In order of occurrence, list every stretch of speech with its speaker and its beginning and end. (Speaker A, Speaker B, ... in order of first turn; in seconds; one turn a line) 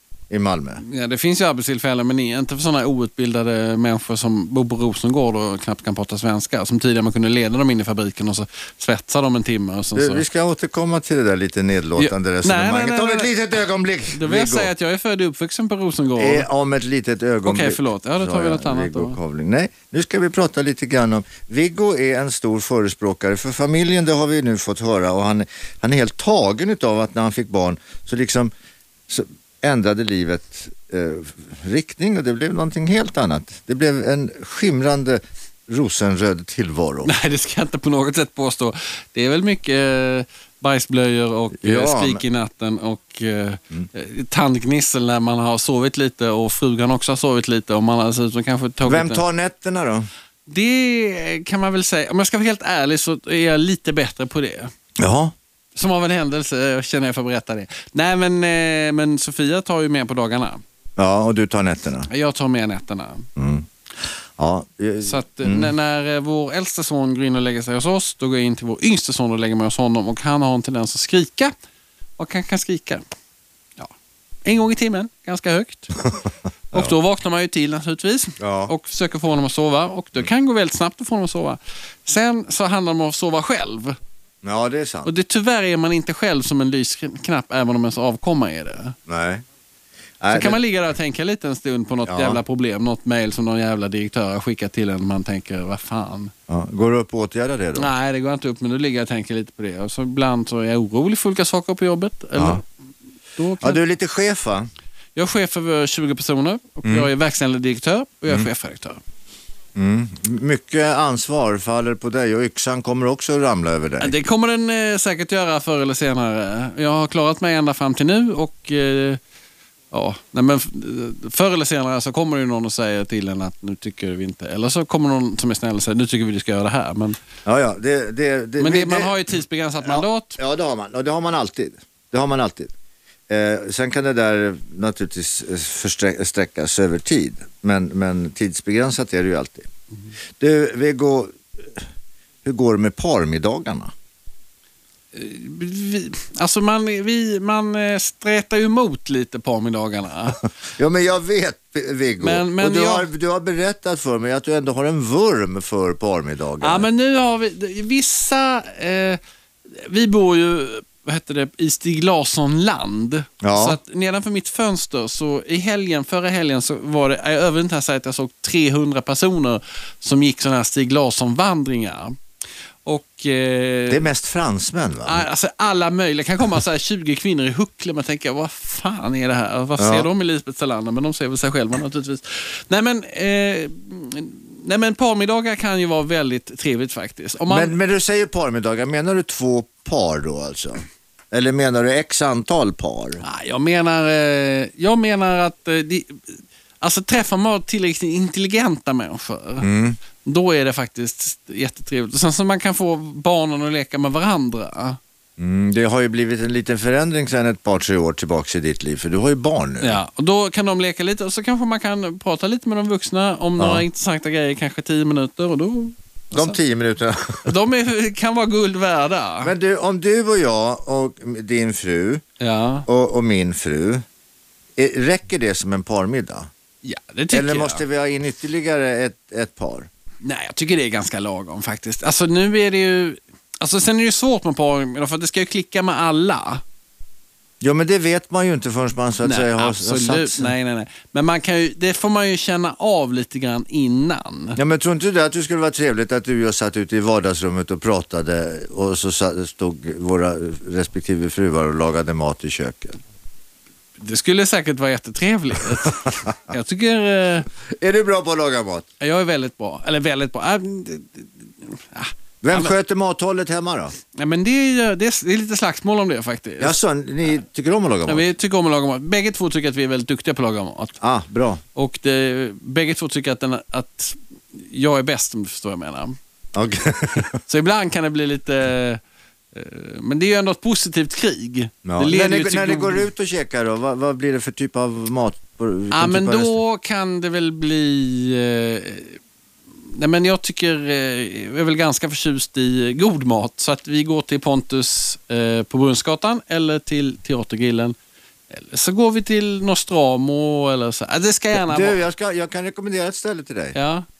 Speaker A: 0.3-0.8
Speaker B: 0.8-10.2
Speaker A: 9.9-14.7
Speaker B: 11.9-13.3
Speaker B: 14.1-16.5
Speaker A: 16.2-28.5
Speaker B: 17.4-19.2
Speaker A: 29.1-37.1
Speaker B: 37.0-49.2
Speaker A: 41.6-42.2
Speaker A: 48.9-50.1
Speaker B: 50.5-54.7
Speaker A: 55.0-55.3
Speaker B: 55.7-60.6
Speaker A: 61.0-62.1
Speaker B: 62.1-63.3
Speaker A: 63.4-63.6
Speaker A: 64.3-65.7
Speaker B: 65.0-71.5
Speaker B: 72.2-73.0
Speaker B: 74.4-76.0
Speaker B: 76.7-84.0
Speaker A: 78.4-78.7
Speaker A: 84.4-85.1
Speaker B: 85.0-89.0
Speaker A: 89.1-89.4
Speaker A: 90.2-90.6
Speaker B: 90.3-96.3
Speaker A: 92.0-92.4
Speaker A: 96.5-97.9
Speaker B: 97.7-102.6
Speaker B: 103.3-103.8
Speaker A: 103.6-104.7
Speaker B: 105.2-109.0
Speaker A: 106.8-107.1
Speaker A: 109.7-114.1
Speaker B: 114.0-119.2
Speaker B: 119.9-127.2
Speaker A: 127.4-129.1
Speaker B: 128.6-130.4
Speaker A: 129.8-132.7
Speaker A: 133.3-139.7
Speaker A: 140.4-141.8
Speaker A: 142.4-143.9
Speaker B: 145.1-150.4
Speaker A: 150.8-156.8
Speaker B: 152.2-153.1
Speaker B: 156.6-159.2
Speaker B: 159.7-172.2
Speaker A: 163.4-163.8
Speaker B: 172.8-174.1
Speaker A: 173.9-175.2
Speaker B: 175.0-187.7
Speaker A: 179.8-180.1
Speaker A: 187.5-193.2
Speaker B: 193.2-199.7
Speaker A: 199.6-200.0
Speaker B: 200.2-205.0
Speaker A: 205.4-210.0
Speaker B: 209.8-216.6
Speaker A: 213.6-213.8
Speaker A: 216.3-217.5
Speaker B: 217.4-219.5
Speaker A: 219.4-222.2
Speaker B: 222.4-222.9
Speaker A: 222.9-224.0
Speaker A: 224.8-226.5
Speaker B: 226.8-227.8
Speaker A: 227.3-229.9
Speaker B: 230.2-236.6
Speaker A: 237.6-240.5
Speaker B: 239.2-244.6
Speaker A: 244.6-253.0
Speaker B: 254.0-257.5
Speaker A: 255.8-256.3
Speaker A: 257.7-258.9
Speaker B: 259.0-262.7
Speaker A: 262.4-263.9
Speaker B: 264.1-266.8
Speaker A: 266.6-268.3
Speaker B: 268.1-270.9
Speaker A: 271.0-271.6
Speaker B: 271.7-276.1
Speaker A: 276.5-277.3
Speaker B: 277.4-279.0
Speaker B: 279.5-283.1
Speaker A: 281.8-286.6
Speaker B: 285.9-289.2
Speaker B: 289.9-297.9
Speaker B: 298.5-302.0
Speaker A: 301.5-303.8
Speaker B: 303.7-304.1